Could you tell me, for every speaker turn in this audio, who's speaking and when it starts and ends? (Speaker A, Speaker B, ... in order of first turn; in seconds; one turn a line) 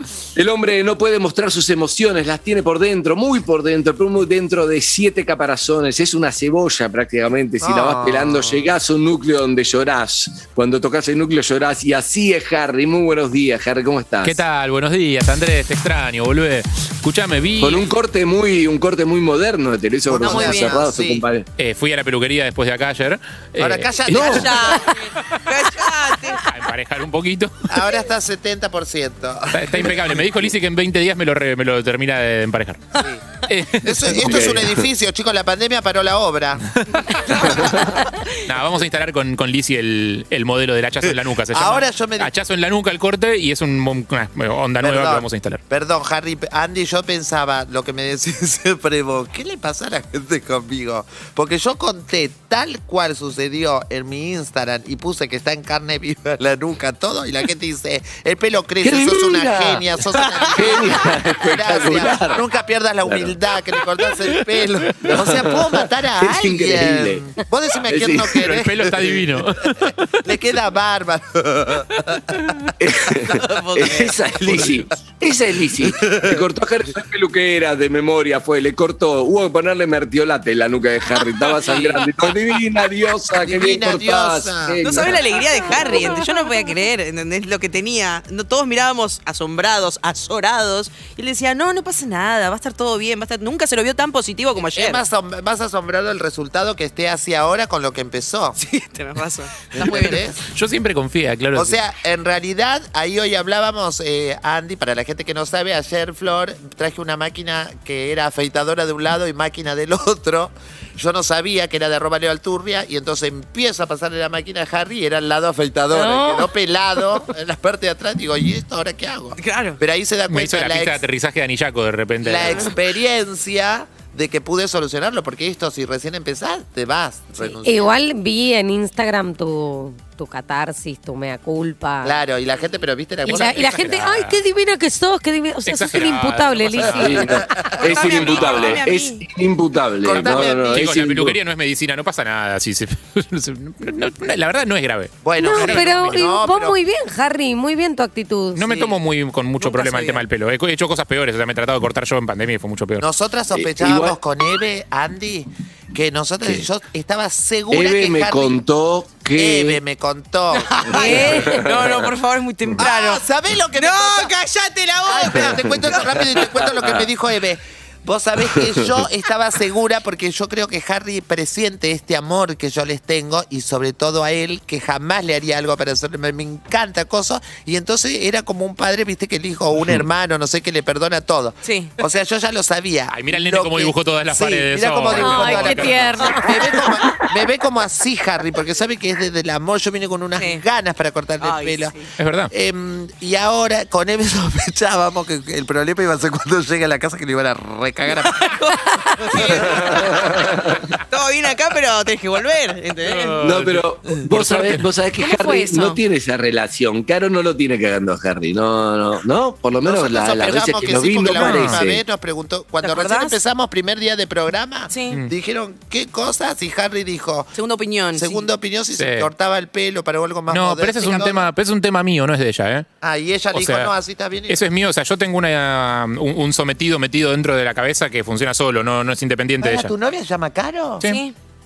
Speaker A: 0.3-14.4
Speaker B: 7.6-8.7
Speaker C: 14.2-17.9
Speaker A: 17.6-21.4
Speaker B: 20.1-21.2
Speaker D: 20.2-20.8
Speaker C: 21.6-24.5
Speaker B: 23.6-25.0
Speaker A: 24.1-24.6
Speaker D: 24.1-26.4
Speaker C: 26.4-27.7
Speaker B: 27.7-30.1
Speaker C: 29.5-32.9
Speaker B: 33.0-36.7
Speaker C: 33.4-34.7
Speaker A: 34.1-34.9
Speaker C: 36.7-37.4
Speaker D: 37.1-38.3
Speaker A: 37.4-38.0
Speaker C: 38.4-45.6
Speaker B: 41.5-42.3
Speaker B: 44.8-69.2
Speaker A: 58.8-62.5
Speaker A: 63.0-63.4
Speaker A: 65.0-67.3
Speaker A: 67.8-68.4
Speaker C: 68.3-70.3
Speaker B: 70.2-72.4
Speaker A: 72.8-85.3
Speaker D: 73.3-74.2
Speaker B: 74.4-74.7
Speaker B: 75.8-76.4
Speaker D: 81.5-82.1
Speaker B: 83.4-84.8
Speaker D: 84.8-95.0
Speaker B: 94.6-98.6
Speaker D: 98.6-100.2
Speaker B: 99.7-100.5
Speaker C: 100.5-101.8
Speaker B: 101.5-121.0
Speaker E: 115.9-116.5
Speaker D: 119.4-119.8
Speaker C: 120.3-122.8
Speaker B: 122.2-127.9
Speaker E: 127.4-132.2
Speaker B: 132.0-133.9
Speaker E: 133.2-137.7
Speaker C: 133.2-134.3
Speaker C: 135.6-138.8
Speaker A: 136.9-141.4
Speaker B: 137.1-138.0
Speaker D: 137.8-139.2
Speaker B: 140.0-140.9
Speaker C: 140.2-146.2
Speaker B: 145.2-146.8
Speaker E: 145.4-148.7
Speaker C: 148.5-153.1
Speaker B: 148.7-148.9
Speaker D: 149.6-150.2
Speaker B: 153.0-158.6
Speaker A: 153.5-154.2
Speaker A: 156.4-156.7
Speaker A: 157.7-159.8
Speaker B: 159.3-161.5
Speaker D: 160.6-163.2
Speaker A: 160.9-162.1
Speaker E: 161.0-161.6
Speaker B: 162.8-164.3
Speaker D: 163.7-166.0
Speaker B: 165.1-191.9
Speaker A: 165.3-167.1
Speaker A: 168.4-169.1
Speaker D: 181.6-181.9
Speaker C: 183.1-186.3
Speaker E: 185.1-187.0
Speaker D: 190.4-190.6
Speaker D: 191.4-192.1
Speaker C: 192.2-192.5
Speaker B: 192.5-200.1
Speaker D: 198.2-200.5
Speaker A: 199.4-200.9
Speaker D: 201.1-203.4
Speaker C: 203.0-204.9
Speaker A: 203.4-212.0
Speaker D: 205.2-206.0
Speaker B: 209.8-217.5
Speaker C: 211.3-211.8
Speaker D: 212.8-213.4
Speaker D: 214.9-215.2
Speaker D: 217.5-218.5
Speaker B: 218.1-221.5
Speaker C: 218.9-219.3
Speaker C: 220.5-222.8
Speaker B: 223.0-224.6
Speaker C: 223.5-223.9
Speaker C: 224.5-229.9
Speaker B: 229.6-231.0
Speaker D: 231.0-231.3